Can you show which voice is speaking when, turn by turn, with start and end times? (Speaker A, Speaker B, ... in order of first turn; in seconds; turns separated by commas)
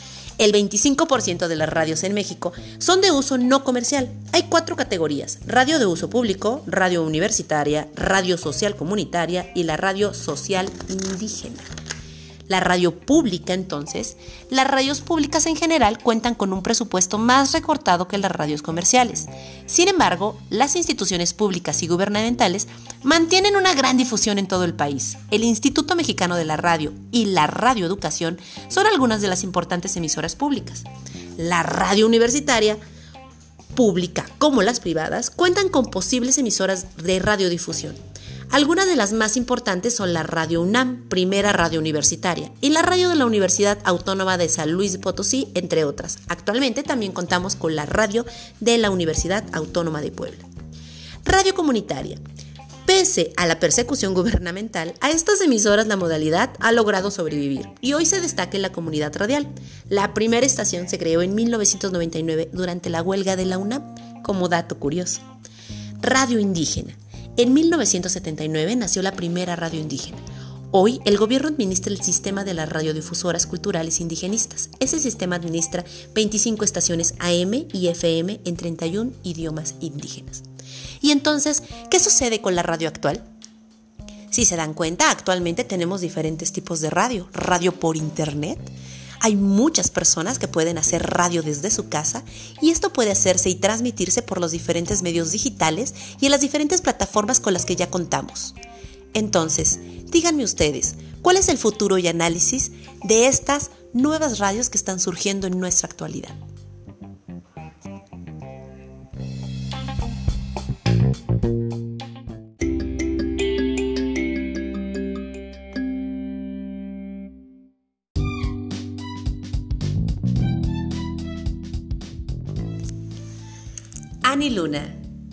Speaker A: 0.4-11.7, Speaker A: 12.5-30.9, Speaker A: 31.4-32.8, Speaker A: 33.8-38.0, Speaker A: 38.5-50.5, Speaker A: 51.2-52.2, Speaker A: 52.9-65.2, Speaker A: 66.0-80.4, Speaker A: 81.0-83.2, Speaker A: 84.3-88.7, Speaker A: 89.2-98.5, Speaker A: 99.1-106.4, Speaker A: 124.2-125.0